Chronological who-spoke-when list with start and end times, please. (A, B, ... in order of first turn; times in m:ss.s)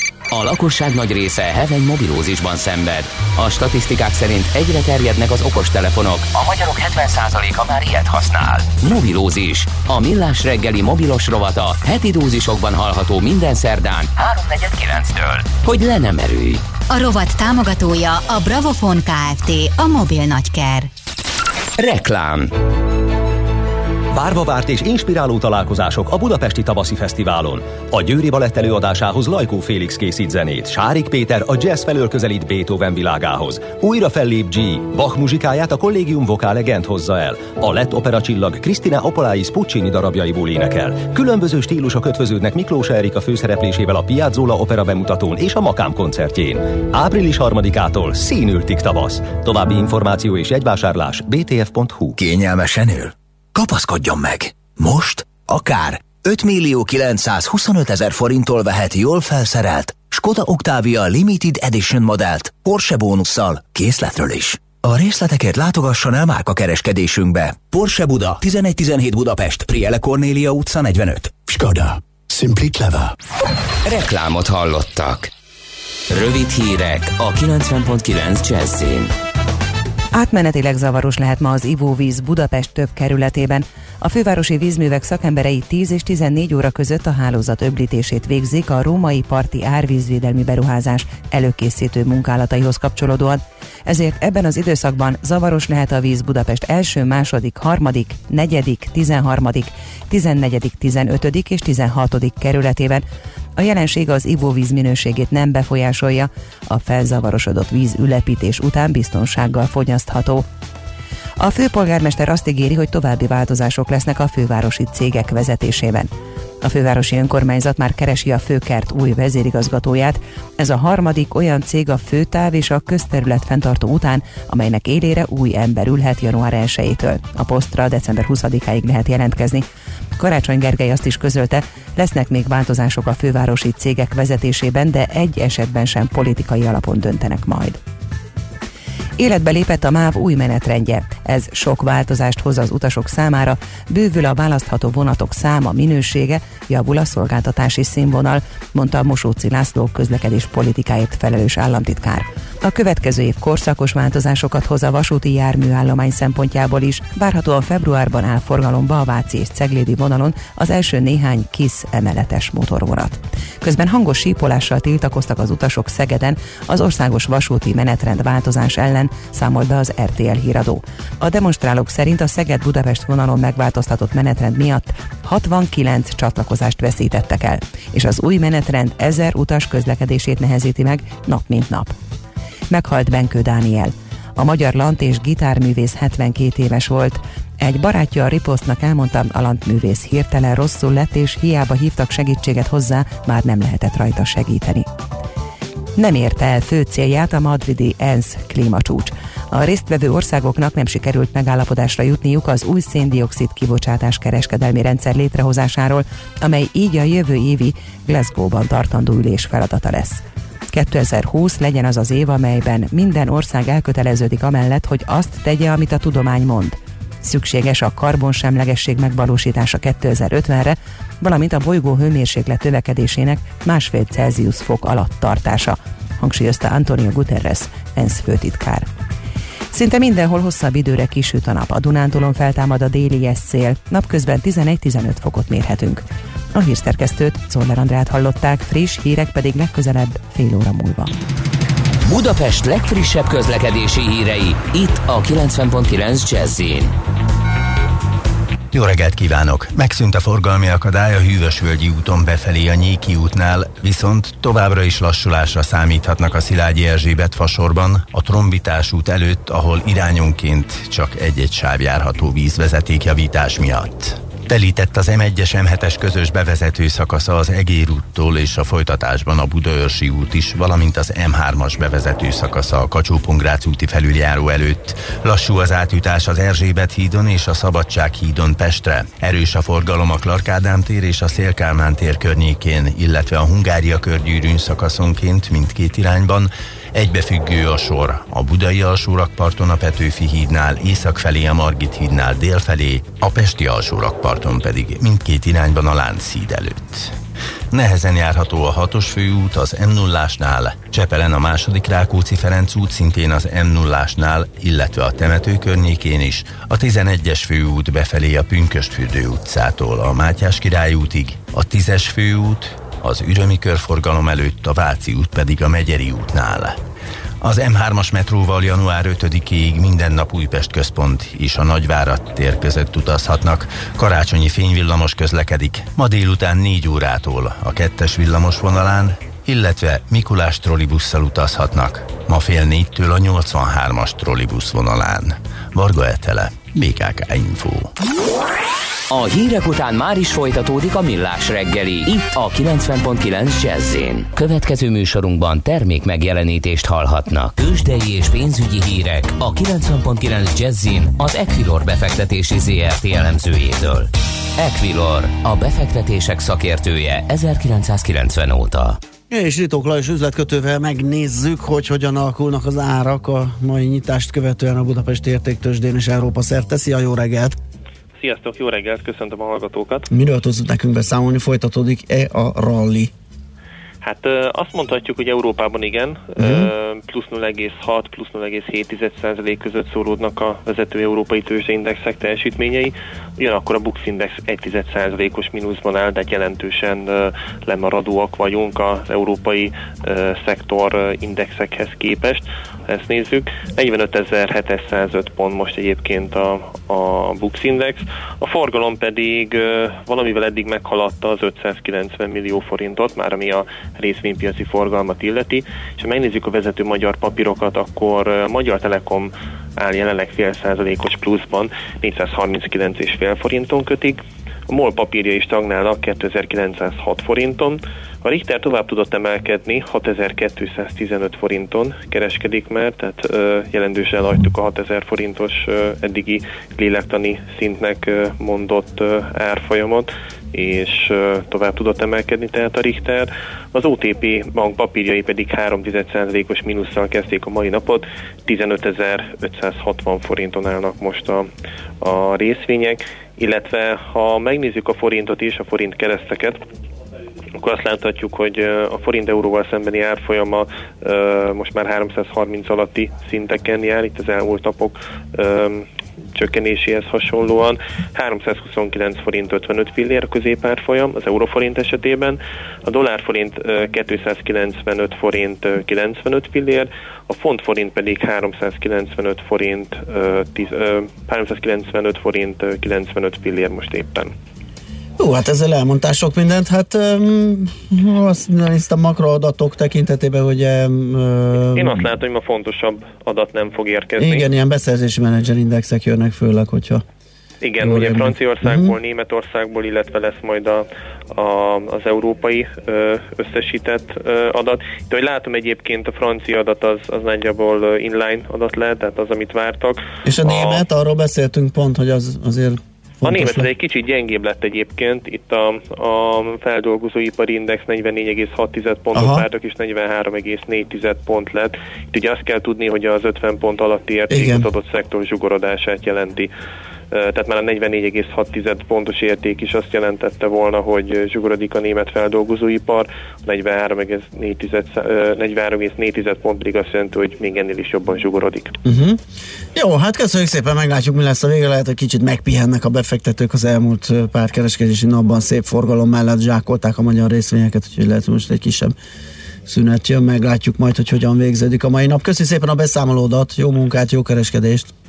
0:00.3-0:16.6 A
0:16.9-0:20.9 B
0:21.8-0:22.5 A
0:24.1-0:52.2 C
0:52.2-1:13.1 D
1:13.8-1:15.3 A
1:16.1-1:19.1 A
1:20.1-1:43.0 E
1:43.6-1:50.4 E
1:51.4-1:56.1 E
1:56.6-2:09.6 E
2:10.2-2:17.8 E
2:19.2-3:01.9 E
3:02.7-3:14.9 E
3:16.0-3:48.9 E
3:49.7-4:01.1 E
4:02.0-4:06.9 A
4:08.7-4:57.1 F
4:57.7-5:16.8 F
5:17.4-5:37.9 F
5:39.1-5:59.0 A
5:59.3-6:07.6 G
6:08.2-6:10.1 H
6:10.1-6:13.1 G
6:14.0-7:21.5 H
6:16.4-6:16.7 G
7:22.0-7:26.6 H
7:27.6-7:54.3 H
7:55.2-8:02.1 G
8:01.7-8:04.5 H
8:04.2-8:07.0 G
8:07.6-8:20.8 H
8:07.8-8:08.9 G
8:20.2-8:23.7 G
8:23.2-8:36.5 H
8:29.1-8:29.4 G
8:34.3-8:34.7 G
8:37.1-8:48.7 H
8:48.8-8:49.2 G
8:49.7-8:58.9 G
8:59.7-9:04.9 G